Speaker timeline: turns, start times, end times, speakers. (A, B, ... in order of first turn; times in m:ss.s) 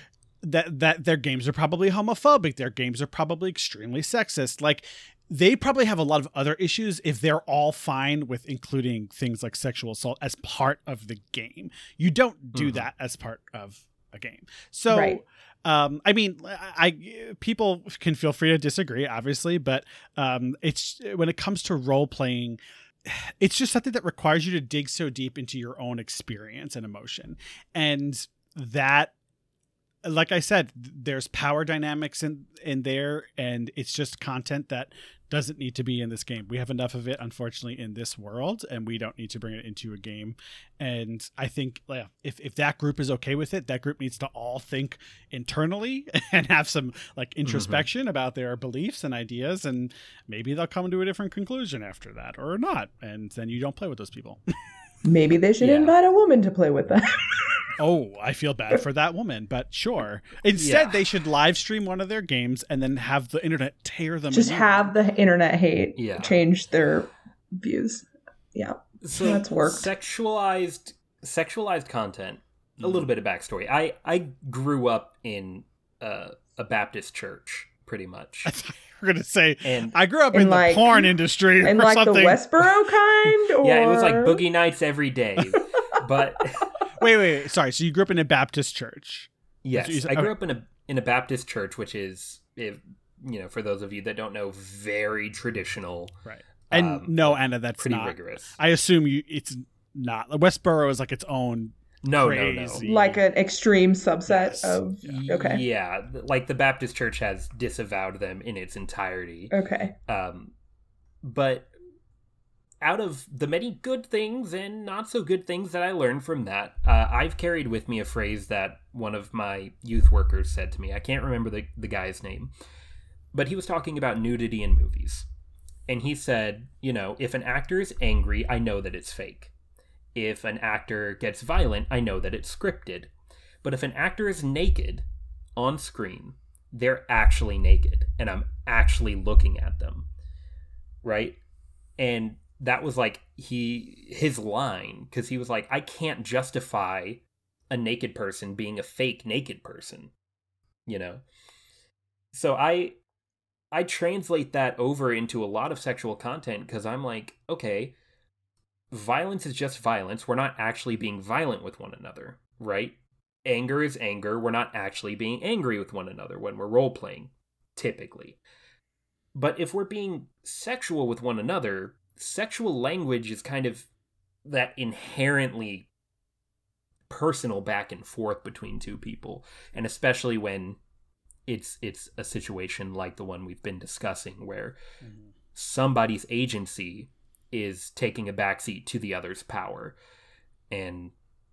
0:00.4-0:29.1 A
0:12.5-0:12.9 B
0:14.9-0:15.2 C
0:30.0-0:54.4 A
0:47.5-0:47.8 B
0:55.0-0:57.2 C
0:55.6-0:56.0 B
0:57.8-1:04.9 A
1:00.6-1:01.0 B
1:04.3-1:09.9 C
1:06.0-1:06.4 B
1:09.0-1:18.5 B
1:12.8-1:13.1 A
1:18.4-1:22.7 A
1:19.6-1:20.0 B
1:20.3-1:24.4 C
1:23.6-1:26.7 B
1:27.0-1:30.3 A
1:29.6-1:38.6 B
1:36.2-1:43.2 A
1:42.0-1:42.9 B
1:42.8-1:45.6 C
1:44.3-1:44.8 A
1:45.0-1:49.6 B
1:49.5-1:50.0 C
1:50.1-1:50.5 B
1:51.2-1:51.7 B
1:52.8-2:02.5 B
2:03.3-2:05.3 B
2:05.9-2:09.5 B
2:10.2-2:13.1 B
2:13.6-2:15.0 B
2:15.6-2:20.1 B
2:21.0-2:21.4 B
2:22.0-2:30.1 B
2:30.9-2:31.2 B
2:32.3-2:33.0 B
2:33.7-2:38.0 B
2:38.9-2:48.4 B
2:49.4-2:53.9 B
2:54.4-2:55.9 B
2:57.1-3:00.8 B
3:01.5-3:04.8 B
3:05.6-3:10.0 B
3:10.7-3:11.1 B